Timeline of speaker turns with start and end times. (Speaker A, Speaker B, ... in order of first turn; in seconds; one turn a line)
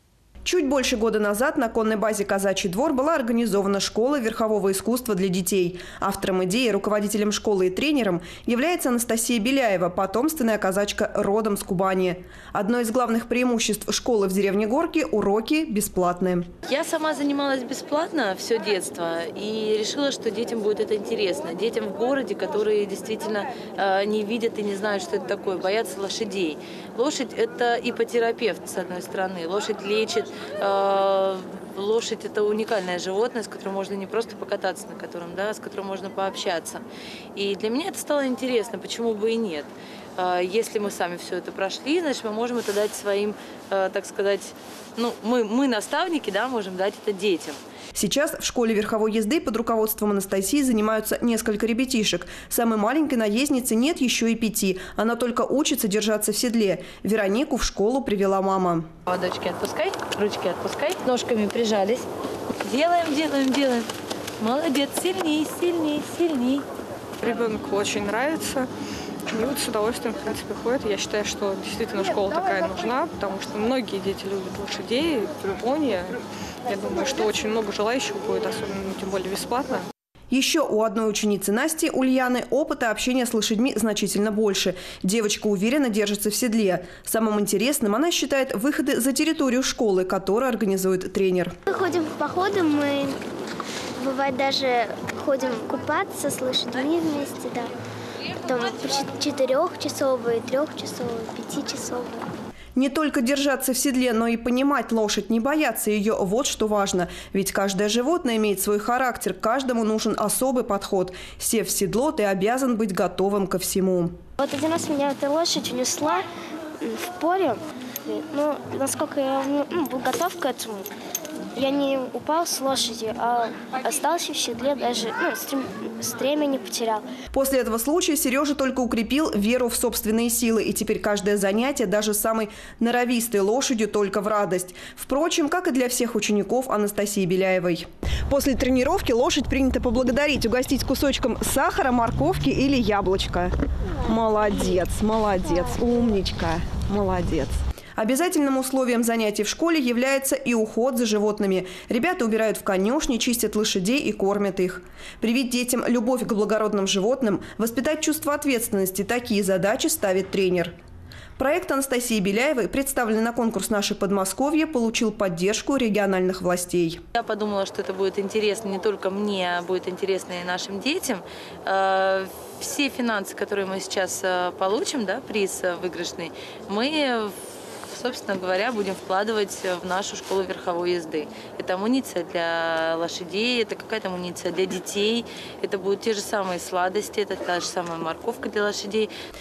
Speaker A: 0.5-16.5
Speaker B: 16.7-47.6
Speaker A: 47.9-58.9
Speaker B: 59.1-62.0
Speaker B: 62.6-63.9
Speaker B: 64.4-66.6
Speaker C: 67.2-68.7
Speaker C: 69.3-79.8
Speaker A: 80.3-91.5
Speaker D: 91.7-93.2
Speaker D: 94.0-97.7
Speaker D: 98.4-102.3
Speaker A: 102.8-114.2
Speaker D: 114.4-116.2
Speaker D: 116.8-120.9
Speaker D: 121.5-127.1
Speaker A: 127.3-160.8
Speaker A: 161.4-167.0
Speaker B: 167.1-177.4
Speaker B: 177.9-189.1